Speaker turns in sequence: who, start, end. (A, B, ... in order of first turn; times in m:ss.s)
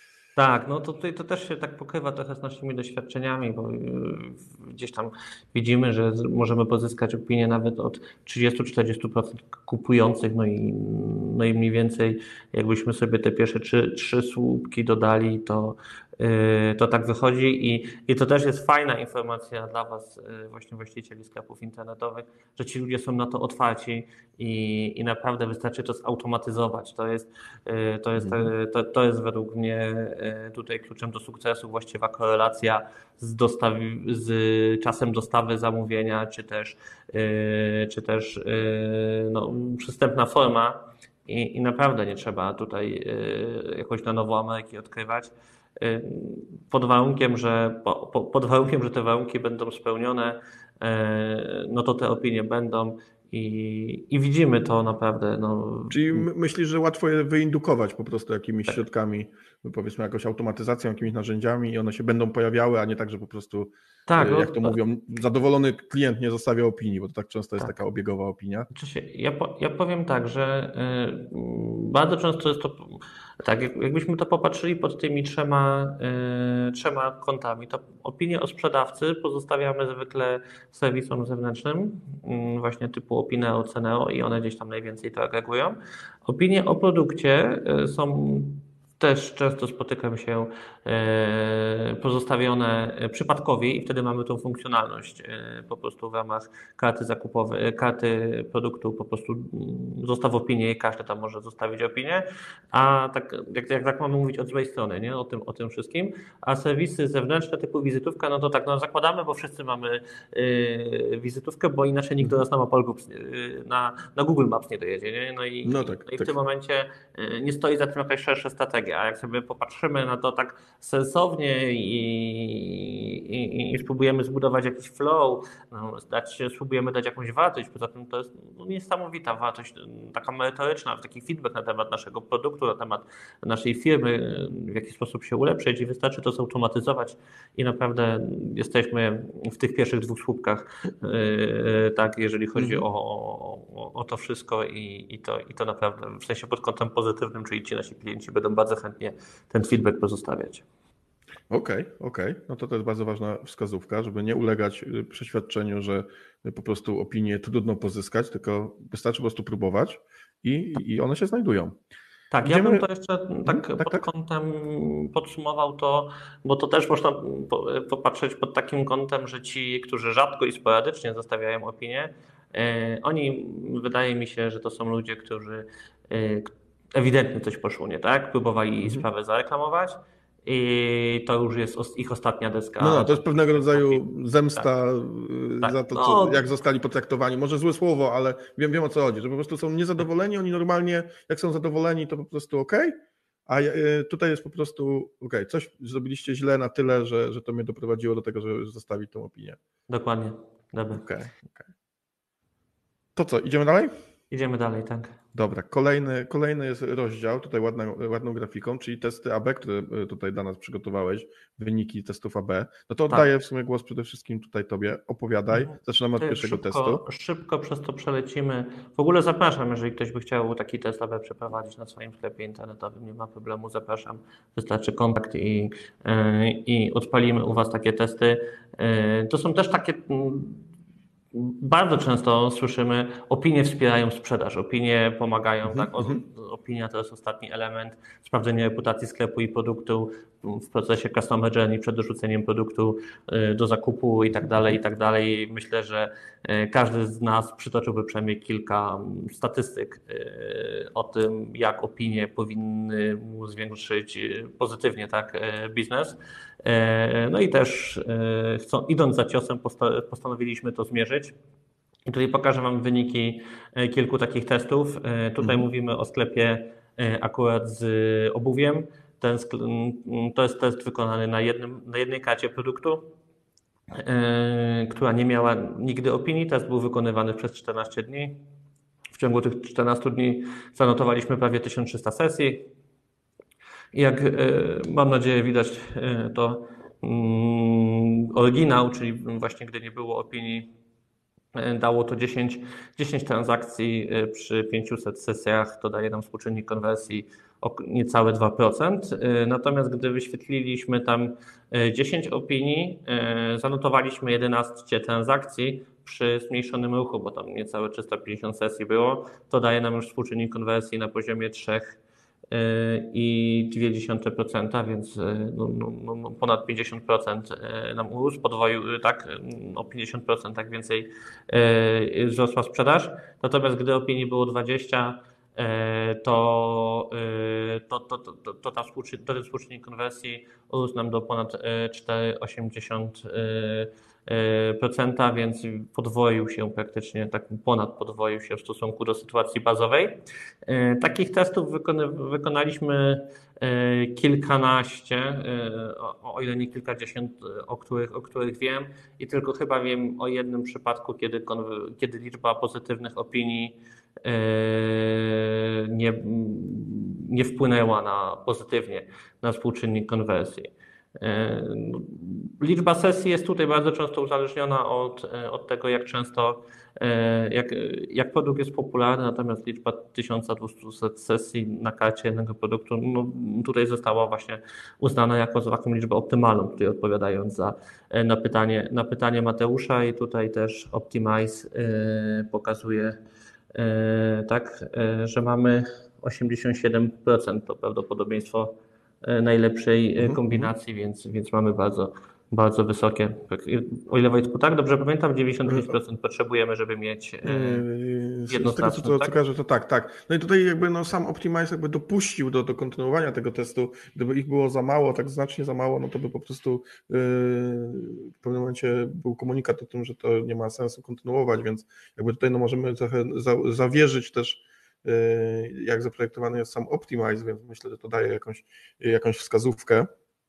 0:00.4-0:56.2 A
0:28.2-0:28.5 B
0:55.9-1:08.7 B
1:04.1-1:04.8 A
1:08.7-2:30.6 A
1:55.6-1:56.3 B
2:22.6-2:22.8 B
2:31.5-2:41.8 B
2:42.3-3:04.0 A
2:42.4-2:42.8 B
2:43.4-2:44.0 B
3:02.8-3:12.9 B
3:05.6-3:06.4 A
3:13.5-3:19.6 B
3:19.9-3:21.0 A
3:20.9-3:21.7 B
3:23.2-3:23.9 B
3:24.3-3:25.1 A
3:25.3-3:37.0 B
3:35.5-3:50.6 A
3:51.3-4:21.3 A
3:55.7-3:56.2 B
4:04.4-4:04.7 B
4:22.0-4:33.1 A
4:33.9-4:38.4 A
4:39.1-4:42.7 A
4:43.9-4:50.7 A
4:51.5-5:12.0 A
5:12.5-6:23.2 A
6:23.7-6:37.8 A
6:30.2-6:30.7 B
6:35.7-6:35.9 B
6:37.4-7:00.1 B
6:38.5-6:39.4 A